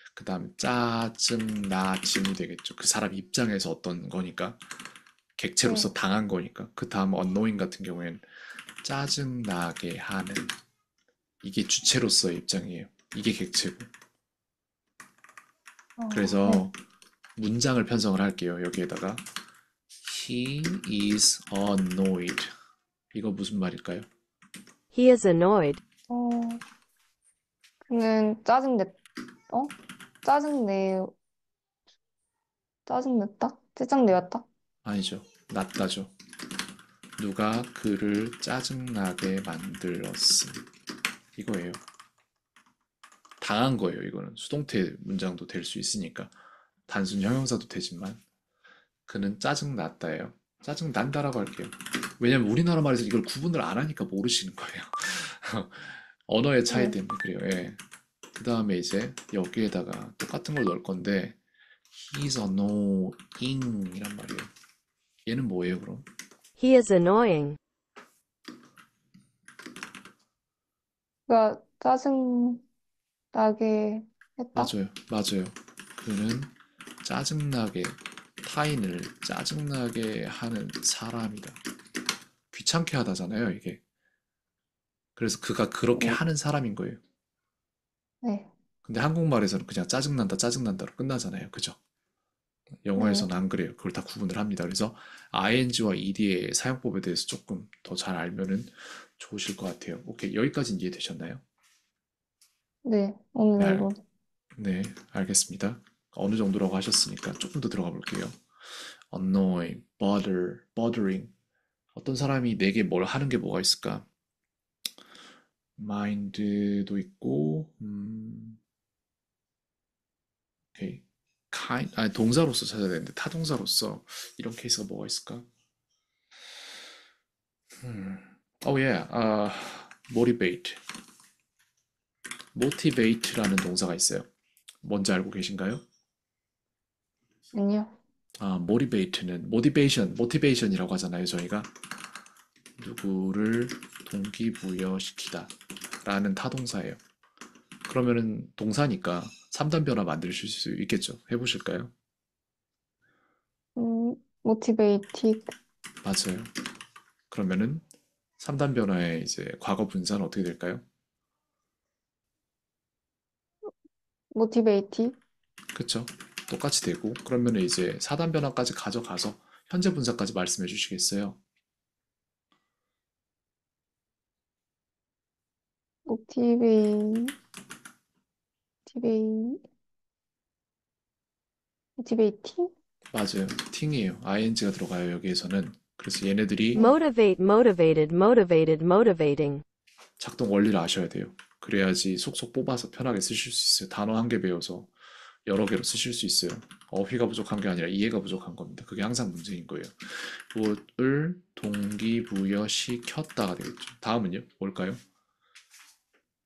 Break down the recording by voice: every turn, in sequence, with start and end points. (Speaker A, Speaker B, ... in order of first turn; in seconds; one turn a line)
Speaker A: 0.1-4.6
Speaker A: 5.4-8.2
Speaker B: 5.6-5.9
Speaker A: 8.8-10.6
Speaker A: 11.4-13.9
Speaker B: 16.0-16.6
Speaker A: 16.1-16.8
Speaker A: 17.4-19.2
Speaker A: 20.0-22.5
Speaker A: 23.1-24.1
Speaker C: 24.9-25.8
Speaker B: 26.1-26.6
Speaker B: 27.9-29.0
Speaker B: 29.5-31.1
Speaker B: 32.9-34.4
Speaker A: 34.8-36.1
Speaker A: 37.2-40.6
Speaker A: 41.4-41.8
Speaker A: 43.4-46.3
Speaker A: 46.9-48.2
Speaker A: 49.1-57.8
Speaker B: 56.7-57.0
Speaker A: 58.4-61.4
Speaker A: 61.9-64.5
Speaker A: 65.2-66.1
Speaker C: 66.6-67.6
Speaker B: 71.3-72.6
Speaker B: 73.3-74.7
Speaker A: 74.5-76.5
Speaker A: 77.0-81.6
Speaker A: 82.5-83.8
Speaker A: 85.2-87.0
Speaker B: 88.2-88.5
Speaker A: 88.8-91.8
Speaker A: 92.8-101.4
Speaker B: 93.0-93.3
Speaker B: 102.8-104.0
Speaker A: 103.6-103.9
Speaker A: 104.5-111.3
Speaker A: 111.9-114.0
Speaker A: 115.8-118.6
Speaker A: 120.7-125.5
Speaker A: 127.8-130.8
Speaker A: 132.5-134.3
Speaker A: 134.8-135.8
Speaker B: 137.5-137.9
Speaker A: 138.4-141.7
Speaker A: 142.8-147.0
Speaker A: 147.8-151.9
Speaker B: 153.8-155.5
Speaker A: 156.0-156.5
Speaker A: 157.3-157.8
Speaker A: 158.4-160.8
Speaker B: 164.3-165.2
Speaker A: 165.7-171.4
Speaker B: 176.1-177.3
Speaker B: 178.9-179.6
Speaker B: 182.0-182.7
Speaker A: 183.1-186.9
Speaker C: 186.7-189.6
Speaker A: 190.2-194.9
Speaker A: 195.4-205.0